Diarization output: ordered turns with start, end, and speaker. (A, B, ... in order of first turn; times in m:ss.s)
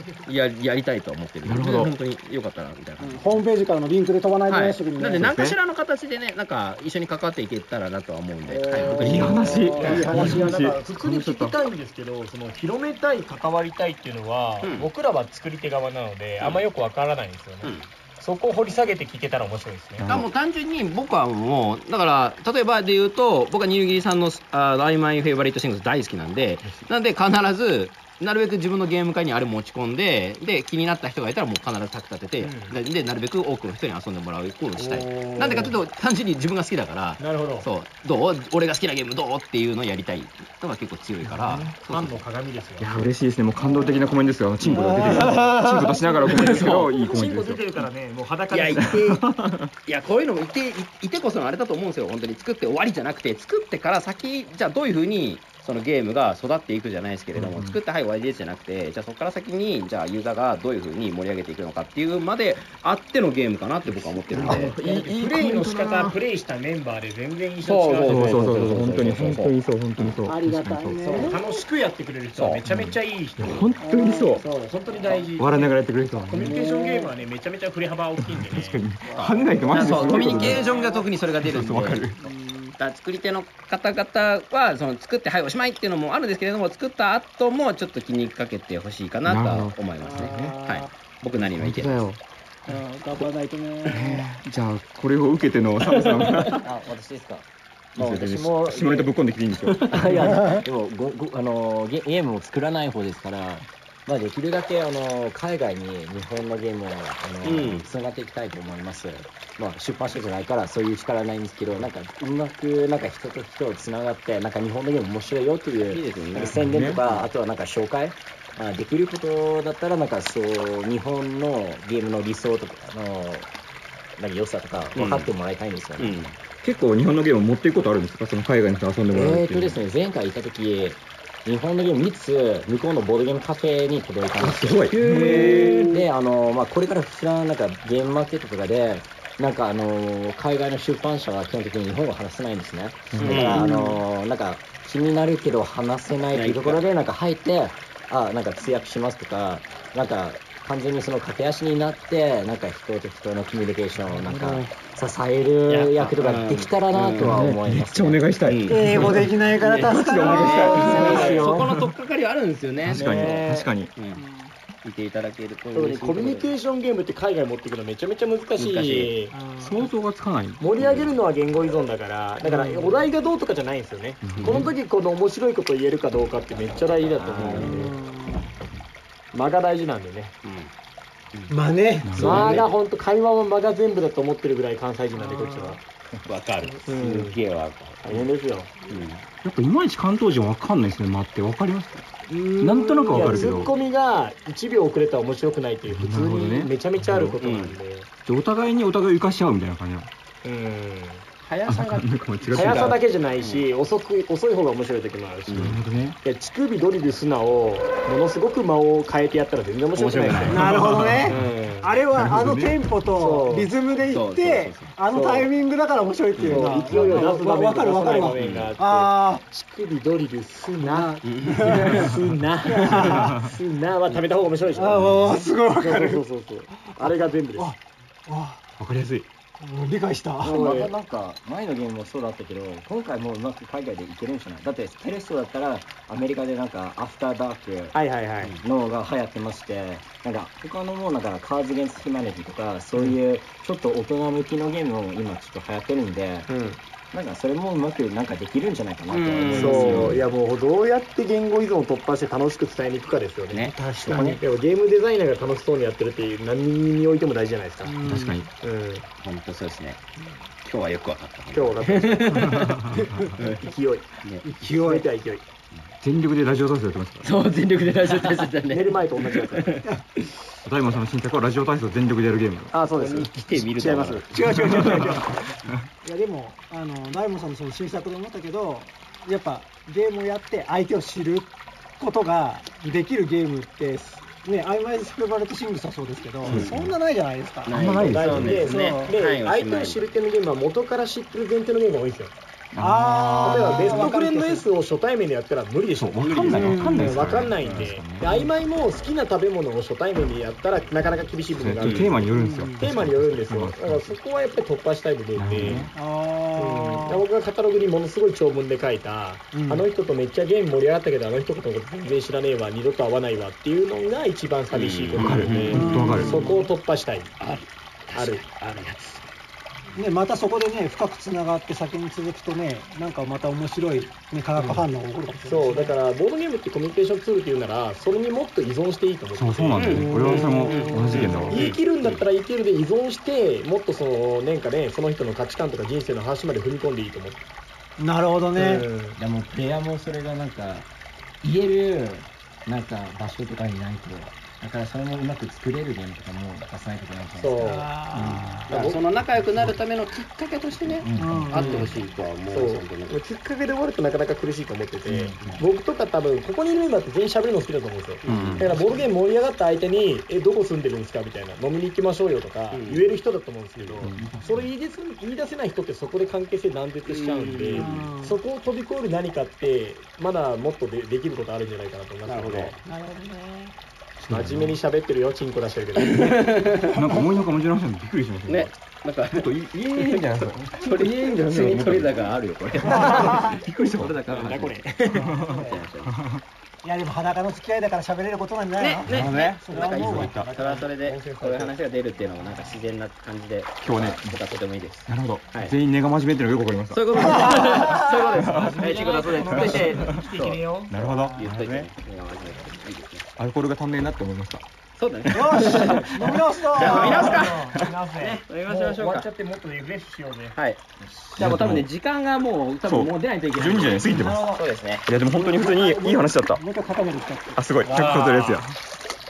0:00.2-0:03.4 A
0:01.4-0:01.9 B
0:03.0-0:05.3 C
0:04.5-0:10.4 A
0:05.2-0:05.6 B
0:08.4-0:10.3 C
0:08.8-0:11.6 B
0:09.2-0:20.1 D
0:14.6-0:14.9 A
0:17.6-0:17.9 A
0:20.0-0:20.3 B
0:20.0-0:42.2 A
0:32.4-0:32.8 D
0:34.7-0:35.8 D
0:37.2-0:37.7 D
0:41.2-0:41.7 B
0:41.6-0:42.9 D
0:42.8-0:47.8 B
0:43.6-0:43.9 D
0:44.7-0:46.0 C
0:45.4-0:49.1 D
0:46.3-0:46.9 A
0:48.5-0:49.2 A
0:48.8-0:49.7 B
0:49.8-1:04.8 A
0:57.3-0:57.8 B
1:03.9-1:06.0 B
1:04.4-1:04.7 C
1:04.7-1:09.2 D
1:07.6-1:10.2 A
1:08.0-1:11.2 B
1:10.2-1:11.6 C
1:11.1-1:21.1 D
1:12.3-1:14.4 B
1:13.8-1:14.6 C
1:15.4-1:16.5 B
1:16.4-1:17.1 C
1:18.2-1:20.6 B
1:19.1-1:22.1 A
1:21.4-1:22.3 B
1:22.8-1:32.1 A
1:29.2-1:30.5 B
1:30.0-1:30.9 C
1:31.4-1:32.2 B
1:32.7-1:34.2 C
1:33.9-1:36.6 B
1:35.9-1:36.5 A
1:36.5-1:37.4 E
1:37.9-1:40.5 B
1:38.0-1:39.1 E
1:39.9-2:03.5 E
1:47.4-1:47.9 A
1:55.8-1:57.3 A
1:56.4-1:57.0 B
2:04.2-2:06.3 E
2:04.9-2:05.3 A
2:06.0-2:06.3 A
2:06.6-2:09.8 B
2:09.1-2:15.0 E
2:14.4-2:16.0 B
2:15.0-2:15.9 D
2:15.6-2:38.2 E
2:23.1-2:23.6 B
2:23.2-2:23.7 A
2:26.3-2:26.8 A
2:35.7-2:37.4 A
2:37.2-2:41.9 B
2:38.4-2:43.1 A
2:38.7-2:41.7 C
2:40.9-2:41.5 D
2:42.8-2:43.9 B
2:42.9-2:43.7 D
2:43.9-2:44.2 A
2:44.2-2:44.5 C
2:44.8-2:46.5 A
2:45.7-2:49.4 D
2:48.6-2:49.1 A
2:49.3-2:49.8 C
2:49.6-2:50.6 B
2:50.6-2:57.9 D
2:50.8-2:51.1 A
2:52.4-2:52.9 C
2:54.2-2:54.7 B
2:54.3-2:54.6 A
2:57.1-2:57.9 A
2:57.5-2:58.4 C
2:59.3-3:00.3 D
3:00.4-3:00.7 A
3:01.5-3:02.4 C
3:02.0-3:02.6 B
3:02.1-3:05.8 D
3:02.2-3:02.7 A
3:05.2-3:05.7 C
3:06.2-3:08.3 A
3:06.8-3:07.4 D
3:08.0-3:09.0 D
3:08.9-3:09.2 A
3:09.4-3:12.0 B
3:12.3-3:18.1 D
3:12.6-3:13.7 B
3:15.9-3:17.4 B
3:17.4-3:17.8 A
3:18.2-3:20.1 B
3:20.4-3:21.2 D
3:21.4-3:23.7 A
3:21.7-3:23.0 B
3:22.5-3:30.7 D
3:25.5-3:25.8 A
3:25.6-3:26.2 B
3:29.9-3:31.5 A
3:30.4-3:39.4 C
3:30.7-3:31.4 B
3:31.2-3:31.9 D
3:32.1-3:32.8 B
3:33.1-3:33.7 D
3:34.0-3:35.0 A
3:35.1-3:35.5 D
3:36.4-3:37.1 A
3:36.4-3:47.7 D
3:38.1-3:38.8 A
3:40.8-3:42.1 C
3:41.2-3:42.2 A
3:42.6-3:43.4 C
3:42.8-3:43.3 A
3:44.7-3:46.2 C
3:47.5-3:48.6 C
3:48.8-3:49.2 B
3:49.6-3:50.6 C
3:50.4-3:58.0 E
3:50.5-3:50.9 D
3:57.9-3:58.6 D
3:58.6-4:06.5 E
4:06.5-4:06.8 D
4:07.1-4:10.2 E
4:09.1-4:10.2 A
4:09.5-4:19.0 D
4:13.5-4:14.3 A
4:13.8-4:14.2 C
4:14.1-4:14.4 E
4:18.0-4:18.5 B
4:19.2-4:20.0 A
4:20.6-4:22.8 A
4:21.5-4:22.5 D
4:22.3-4:23.3 B
4:23.4-4:23.6 A
4:23.6-4:24.1 D
4:24.4-4:25.1 C
4:24.6-4:25.4 D
4:26.0-4:27.3 B
4:27.2-4:29.9 A
4:28.4-4:29.8 D
4:30.6-4:32.7 B
4:32.7-4:34.3 D
4:32.9-4:35.2 A
4:34.3-4:35.3 C
4:34.7-4:35.0 B
4:36.0-4:49.2 C
4:46.4-4:46.7 A
4:46.4-4:46.9 B
4:47.6-4:50.0 A
4:47.7-4:48.7 B
4:48.1-4:52.3 D
4:52.7-4:54.1 B
4:52.8-4:54.7 C
4:53.4-5:05.9 D
4:56.0-4:58.4 B
4:56.5-4:57.0 C
5:01.5-5:04.2 B
5:02.3-5:02.9 C
5:05.4-5:05.9 B
5:05.8-5:07.2 C
5:06.5-5:17.3 D
5:09.5-5:09.9 C
5:14.7-5:16.3 A
5:15.1-5:16.4 B
5:15.7-5:16.7 C
5:17.4-5:19.3 A
5:18.1-5:18.4 D
5:20.0-5:26.0 C
5:25.4-5:37.4 D
5:29.3-5:31.7 B
5:29.7-5:32.2 A
5:38.0-5:38.9 C
5:38.6-5:39.1 D
5:39.1-5:40.9 E
5:41.4-5:47.9 E
5:47.4-5:47.8 D
5:47.6-5:48.7 C
5:48.2-5:53.2 A
5:48.2-5:48.5 B
5:48.7-5:49.0 D
5:51.2-5:51.9 C
5:51.2-5:51.4 B
5:51.5-6:12.8 D
5:55.2-5:55.5 B
5:58.2-5:58.7 A
6:02.7-6:03.1 A
6:03.8-6:04.1 A
6:04.0-6:04.6 B
6:07.1-6:08.1 A
6:07.7-6:08.4 C
6:12.2-6:12.8 A
6:12.8-6:13.7 C
6:14.2-6:14.8 B
6:14.3-6:16.6 D
6:16.0-6:17.0 A
6:16.8-6:18.7 B
6:18.4-6:26.1 A
6:19.3-6:22.2 B
6:22.8-6:24.1 B
6:22.9-6:23.6 C
6:24.3-6:25.3 D
6:25.2-6:25.8 C
6:26.8-6:30.4 C
6:28.8-6:35.7 A
6:29.0-6:30.5 B
6:29.7-6:31.7 D
6:33.8-6:34.4 B
6:35.1-6:37.5 B
6:36.9-6:40.6 A
6:37.1-6:38.0 C
6:38.3-6:40.3 B
6:38.4-6:41.4 D
6:40.9-6:41.9 B
6:41.4-6:43.2 A
6:43.4-6:44.6 B
6:45.0-6:49.3 A
6:45.2-6:46.0 B
6:45.3-6:47.4 C
6:46.9-6:50.6 D
6:46.9-6:47.9 B
6:50.5-6:50.8 A
6:51.3-6:55.1 A
6:51.4-6:51.9 B
6:52.8-6:56.6 B
6:54.2-6:57.6 C
6:57.5-6:58.8 B
6:57.8-6:58.6 A